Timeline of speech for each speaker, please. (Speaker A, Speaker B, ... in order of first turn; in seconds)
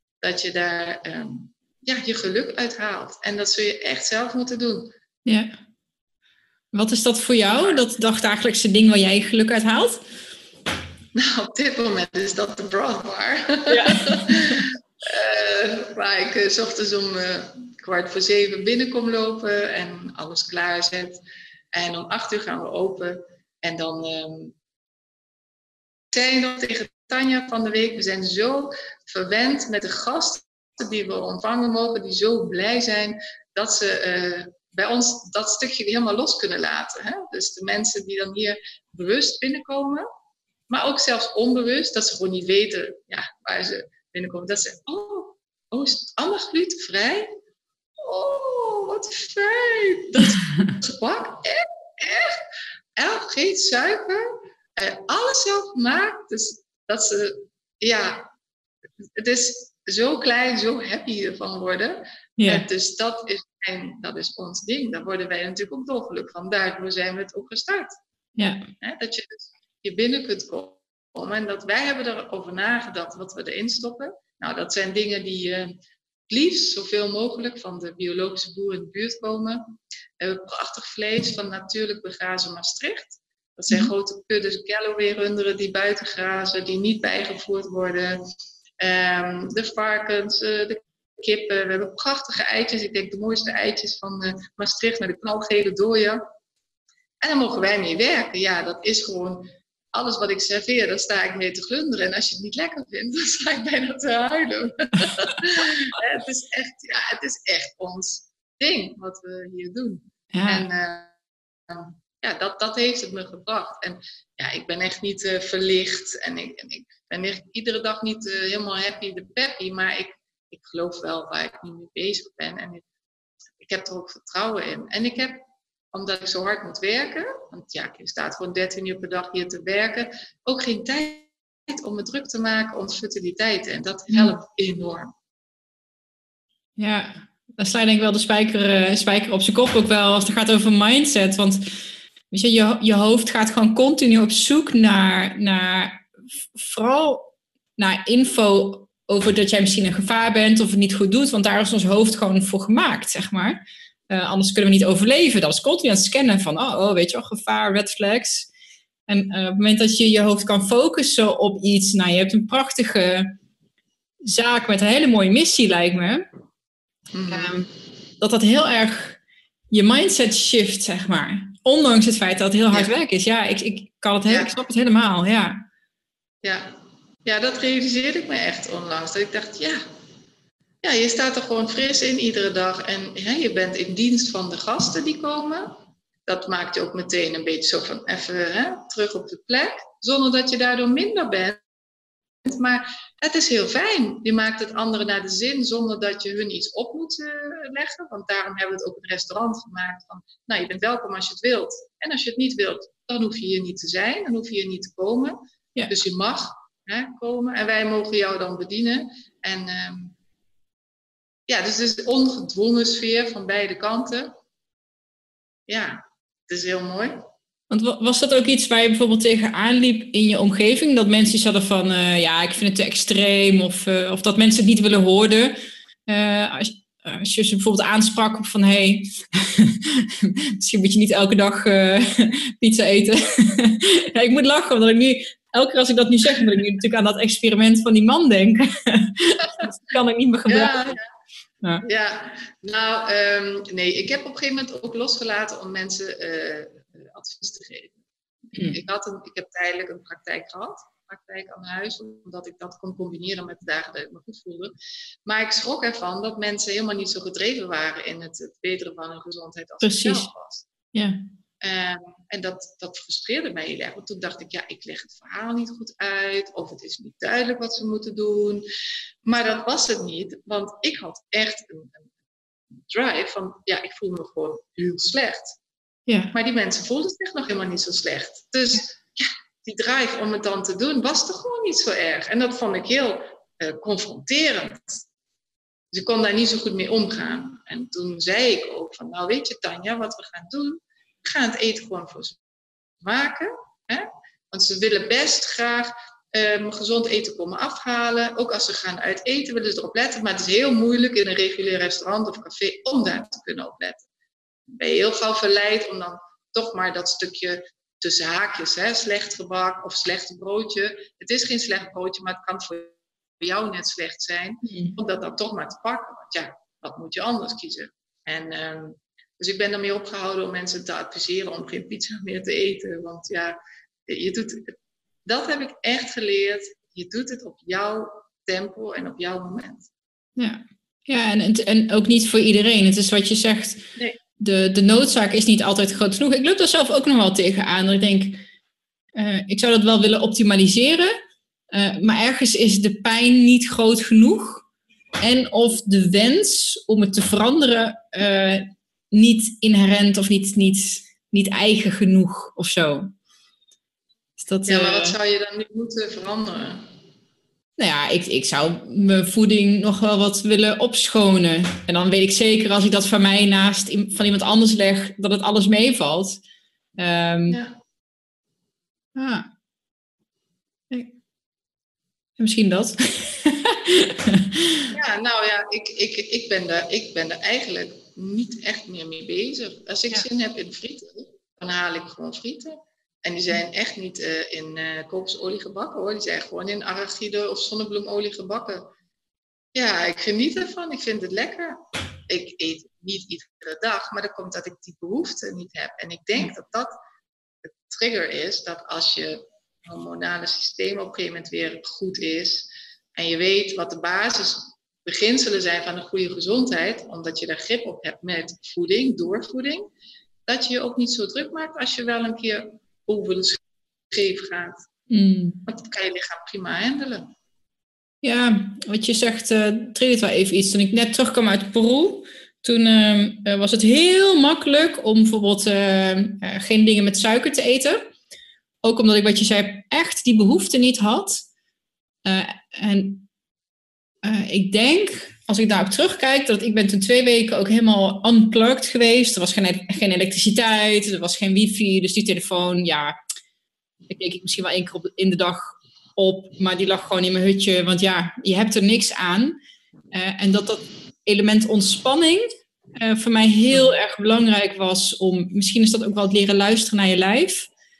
Speaker A: 0.2-4.9, 11.1-21.2, 21.7-24.6, 26.1-40.0, 40.7-47.3, 48.0-52.4, 53.0-58.3, 59.1-67.9, 68.8-75.7, 76.3-88.2, 88.8-96.2, 97.2-111.2, 111.7-122.8, 123.6-135.1, 167.1-167.5, 176.4-179.8, 180.8-191.6, 192.4-210.2, 211.5-214.3, 215.7-217.2, 240.5-241.0, 241.8-248.0, 248.6-254.7, 255.2-260.7, 261.6-268.6, 269.2-272.1, 272.9-275.6, 276.3-285.0, 285.9-292.4, 293.0-304.1, 304.7-329.9, 354.7-356.9, 367.5-367.8, 374.9-388.9, 389.7-396.9, 397.6-409.9, 410.5-413.6, 414.1-414.8, 415.7-417.3
Speaker B: 5.2-5.5, 6.7-10.0, 13.7-14.7, 62.4-62.6, 68.4-68.7, 110.3-110.7, 136.8-141.8, 142.3-158.5, 159.1-163.3, 164.2-166.2, 167.3-167.7, 168.2-169.2, 169.7-175.6, 217.7-225.6, 226.1-241.0, 259.8-260.3, 260.9-261.2, 276.1-276.3, 314.6-314.9, 330.4-338.4, 339.1-341.1, 341.7-344.6, 345.2-353.1, 354.4-355.1, 357.8-366.4, 367.0-367.6, 369.1-369.5, 372.4-374.9, 415.1-415.6, 418.2-428.0, 428.8-431.4, 432.2-433.3, 434.2-443.2, 444.1-449.6, 450.1-457.7